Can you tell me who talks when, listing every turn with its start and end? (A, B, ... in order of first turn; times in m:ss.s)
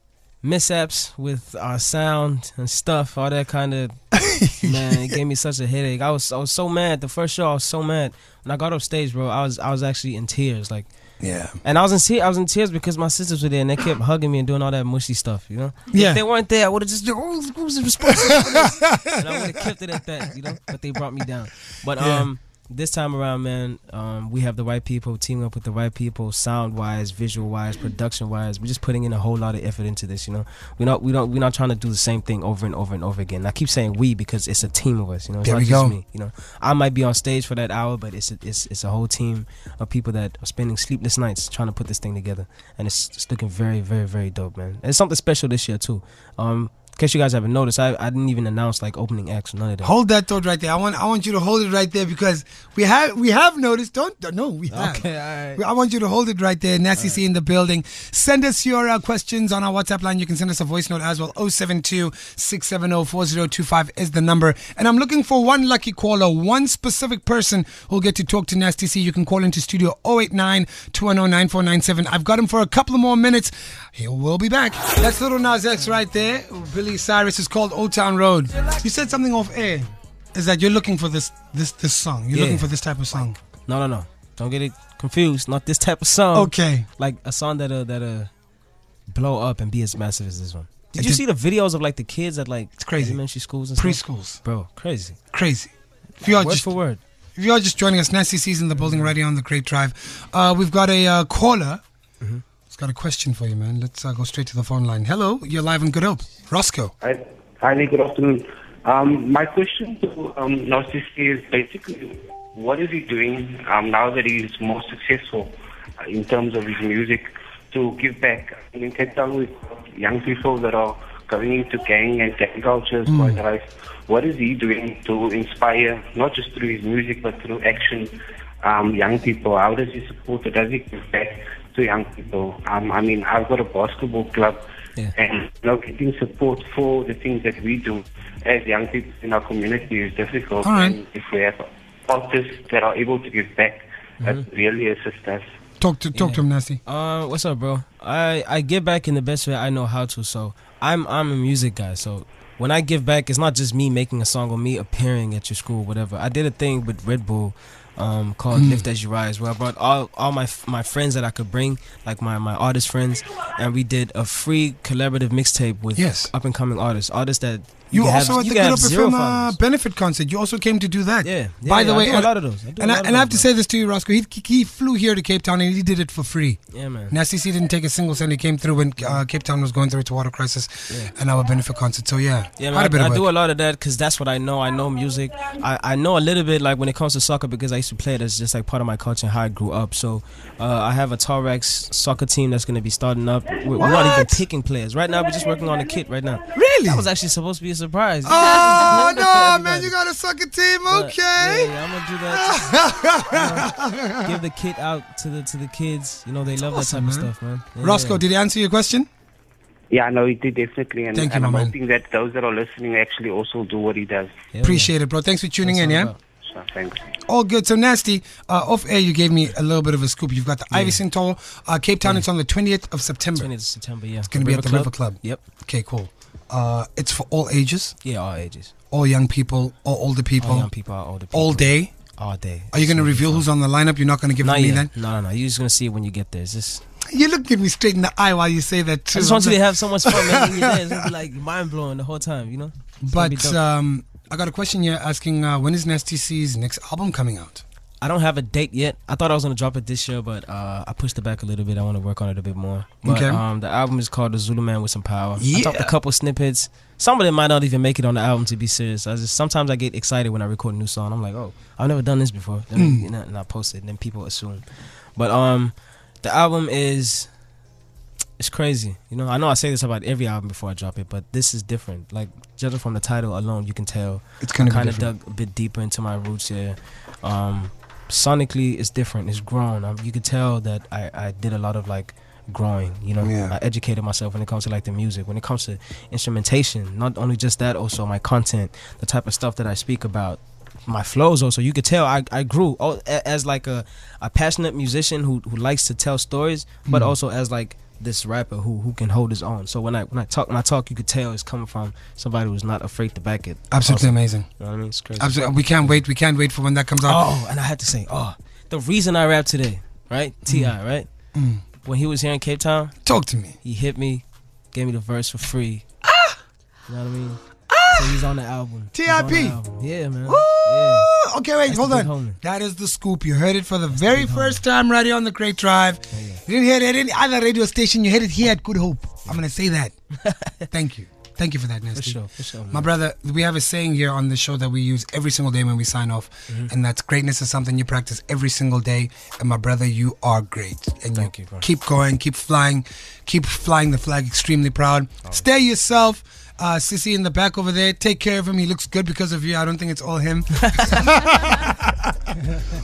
0:00.4-0:04.0 A
0:04.1-0:05.2 B
0:04.6-0:10.9 A
0:11.2-0:11.6 B
0:11.6-0:49.9 A
0:15.9-0:16.2 B
0:18.0-0:19.7 B
0:22.0-0:22.3 B
0:35.4-0:36.0 B
0:49.8-1:23.4 B
0:54.7-0:55.6 A
1:22.3-1:28.3 A
1:26.3-1:26.8 B
1:29.1-1:35.2 A
1:32.8-1:33.2 B
1:33.8-1:34.4 B
1:35.3-1:36.7 B
1:36.2-1:37.0 A
1:37.4-1:41.8 B
1:38.8-1:39.1 A
1:42.7-1:46.9 B
1:47.0-2:14.6 C
2:03.0-2:03.4 B
2:15.1-2:25.4 C
2:20.6-2:21.0 B
2:25.8-2:26.8 B
2:26.1-2:49.6 A
2:38.5-2:38.9 B
2:45.9-2:46.3 B
2:47.9-3:03.2 B
2:51.2-2:53.5 A
2:56.7-2:57.2 A
2:59.0-2:59.2 A
3:02.6-3:19.9 A
3:13.8-3:14.4 B
3:16.5-3:17.0 B
3:18.2-3:24.4 B
3:20.9-3:23.7 A
3:24.2-3:28.2 A
3:26.6-3:29.1 B
3:29.9-3:34.3 C
3:31.1-3:31.7 B
3:34.5-3:34.9 A
3:34.6-3:36.1 B
3:35.6-3:36.2 A
3:36.4-3:37.0 C
3:37.3-3:43.5 B
3:40.7-3:41.0 A
3:43.4-3:45.4 A
3:44.3-3:48.0 B
3:48.0-3:48.7 A
3:48.9-3:50.7 B
3:50.4-3:53.4 A
3:51.3-3:51.9 B
3:52.7-3:54.9 B
3:54.4-3:56.8 A
3:57.1-4:01.1 B
3:59.1-4:03.6 A
4:03.0-4:07.6 B
4:08.0-4:24.6 A
4:13.0-4:13.4 B
4:15.4-4:15.9 B
4:22.8-4:23.1 B
4:25.2-4:27.3 A
4:28.4-5:06.0 A
4:34.4-4:35.1 B
4:43.2-4:43.6 B
4:56.9-4:57.1 B
5:03.7-5:04.5 B
5:05.2-5:07.3 B
5:07.0-5:11.1 A
5:10.4-5:10.7 B
5:11.3-5:11.6 B
5:11.8-5:12.9 A
5:13.0-5:13.6 B
5:13.6-5:15.8 A
5:16.0-5:16.4 B
5:16.9-5:21.1 A
5:17.7-5:18.3 B
5:18.9-5:19.6 B
5:20.2-5:29.9 B
5:21.6-5:22.4 A
5:23.9-5:24.6 A
5:26.1-5:26.4 A
5:30.2-5:30.6 A
5:30.7-5:32.2 B
5:31.9-5:32.9 A
5:32.7-5:52.1 B
5:41.1-5:41.7 A
5:50.6-5:51.0 A